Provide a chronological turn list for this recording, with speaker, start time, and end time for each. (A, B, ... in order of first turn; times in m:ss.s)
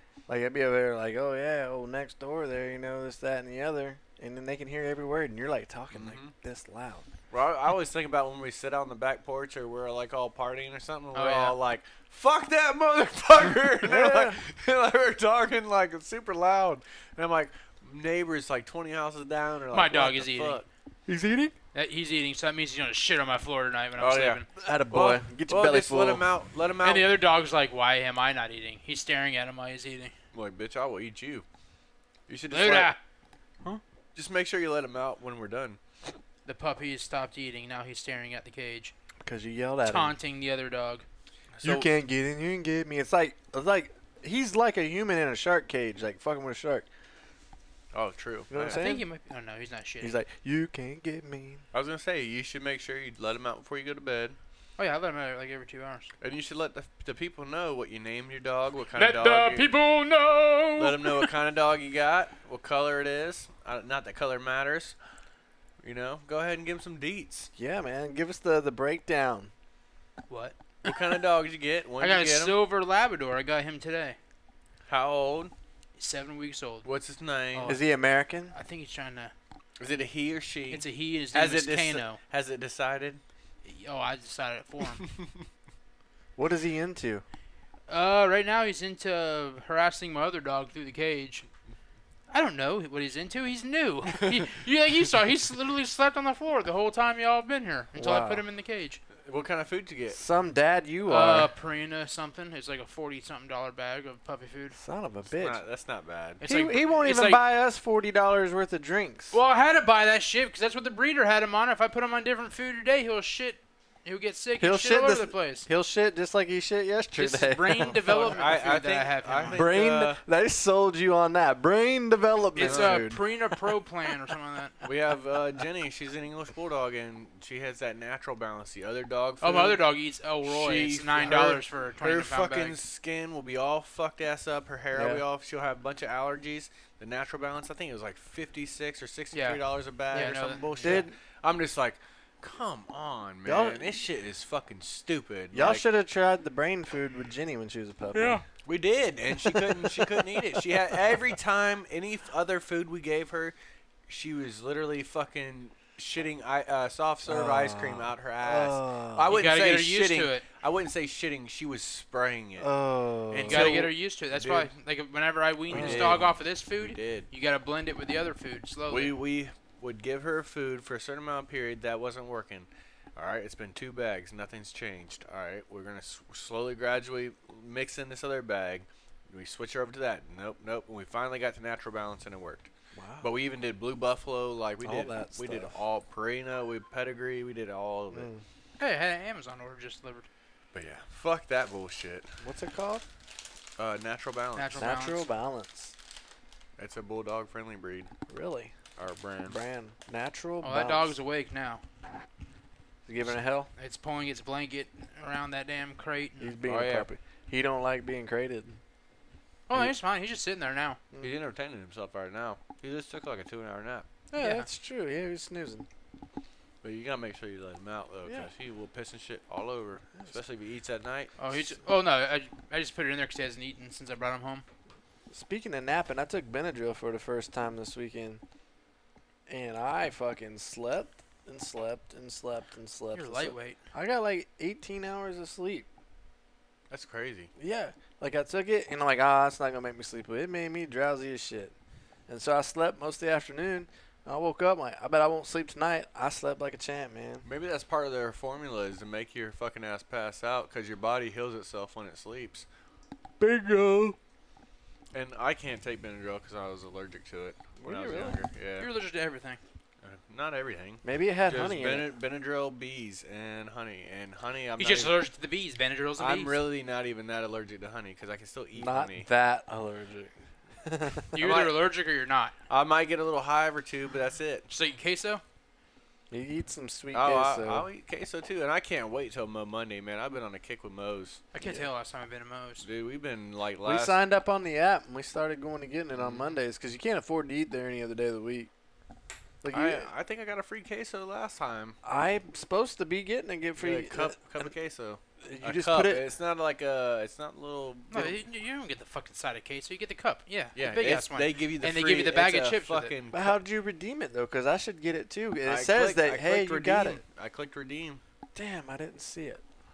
0:00.3-0:07.1 A
0:05.9-0:06.3 B
0:07.3-0:20.6 B
0:11.1-0:11.6 C
0:13.8-0:14.4 A
0:19.7-0:20.6 C
0:21.1-0:21.5 A
0:21.7-0:24.5 C
0:24.0-0:27.1 B
0:24.6-0:26.3 A
0:26.8-0:30.1 C
0:30.3-0:31.4 B
0:32.3-0:32.9 B
0:32.5-0:33.0 C
0:34.1-0:35.8 B
0:36.4-0:38.9 C
0:39.2-0:40.1 A
0:39.8-0:41.0 C
0:41.6-0:41.9 B
0:41.6-0:46.9 A
0:47.9-0:48.8 B
0:48.5-0:49.0 A
0:48.7-0:50.2 C
0:50.0-0:51.6 A
0:51.7-0:54.4 B
0:54.8-0:56.1 C
0:56.2-0:59.7 B
0:58.9-1:01.3 C
1:00.8-1:05.0 B
1:05.8-1:07.5 B
1:07.6-1:09.5 A
1:10.3-1:11.0 C
1:10.8-1:12.6 B
1:12.0-1:14.2 C
1:14.9-1:15.5 B
1:16.0-1:16.9 C
1:16.8-1:17.7 B
1:17.5-1:17.8 C
1:17.6-1:18.5 A
1:18.5-1:19.3 C
1:19.8-1:23.2 B
1:20.7-1:22.2 C
1:23.6-1:25.0 C
1:26.4-1:27.2 A
1:27.9-1:31.4 C
1:32.3-1:39.0 C
1:37.9-1:38.4 A
1:39.2-1:40.2 B
1:40.1-1:41.5 A
1:41.1-1:44.8 C
1:44.8-1:45.6 A
1:45.4-1:46.4 B
1:46.4-1:47.4 C
1:46.4-1:49.4 A
1:49.3-1:55.7 C
1:54.6-1:58.4 A
1:57.1-1:59.7 C
1:58.0-2:00.2 B
1:59.5-2:03.2 A
2:02.6-2:04.7 C
2:02.6-2:03.1 B
2:04.8-2:09.8 B
2:09.4-2:12.8 C
2:10.4-2:25.8 B
2:14.9-2:15.2 A
2:19.3-2:21.0 C
2:20.8-2:21.1 A
2:23.4-2:24.0 A
2:25.5-2:28.4 A
2:28.1-2:28.4 C
2:28.6-2:33.5 B
2:34.1-2:42.7 B
2:37.2-2:39.3 A
2:39.3-2:40.4 C
2:42.6-2:43.8 A
2:43.3-2:44.7 B
2:43.5-2:49.1 C
2:45.7-2:47.3 B
2:45.7-2:46.3 A
2:48.9-3:02.7 B
3:02.9-3:03.3 A
3:03.2-3:08.3 B
3:04.8-3:05.7 A
3:08.1-3:08.4 A
3:08.8-3:10.3 C
3:10.7-3:12.3 B
3:12.4-3:13.0 A
3:13.8-3:14.8 B
3:14.6-3:15.2 C
3:14.7-3:15.9 A
3:16.8-3:18.1 B
3:18.3-3:18.7 A
3:19.0-3:19.6 B
3:19.5-3:21.1 A
3:20.6-3:21.8 C
3:23.0-3:23.7 A
3:23.8-3:26.6 C
3:26.4-3:28.7 A
3:26.6-3:27.1 B
3:29.7-3:31.0 C
3:31.2-3:34.1 B
3:34.3-3:35.9 A
3:34.4-3:34.7 C
3:36.8-3:41.3 B
3:41.4-3:44.6 C
3:45.3-3:48.4 A
3:49.5-3:55.9 A
3:53.1-3:53.8 C
3:56.9-3:57.5 B
3:57.6-4:01.7 A
4:02.3-4:07.4 A
4:07.4-4:12.6 B
4:13.4-4:14.2 A
4:15.1-4:18.9 B
4:17.8-4:18.4 A
4:18.8-4:19.6 C
4:20.0-4:25.2 B
4:21.0-4:22.1 A
4:24.8-4:26.6 C
4:26.2-4:29.3 B
4:28.7-4:30.3 A
4:30.8-4:31.3 A
4:31.3-4:32.5 C
4:31.4-4:31.8 B
4:32.7-4:34.7 B
4:34.7-4:35.4 C
4:36.3-4:37.8 A
4:37.1-4:41.4 B
4:41.5-4:42.8 C
4:42.8-4:44.2 B
4:43.8-4:48.7 A
4:46.1-4:46.5 B
4:49.6-4:50.1 A
4:49.7-4:52.0 B
4:52.0-4:54.7 A
4:53.8-4:58.3 B
4:55.4-4:56.3 A
4:58.1-5:03.1 C
5:00.8-5:03.6 B
5:03.3-5:07.2 A
5:05.6-5:08.2 B
5:08.5-5:09.6 A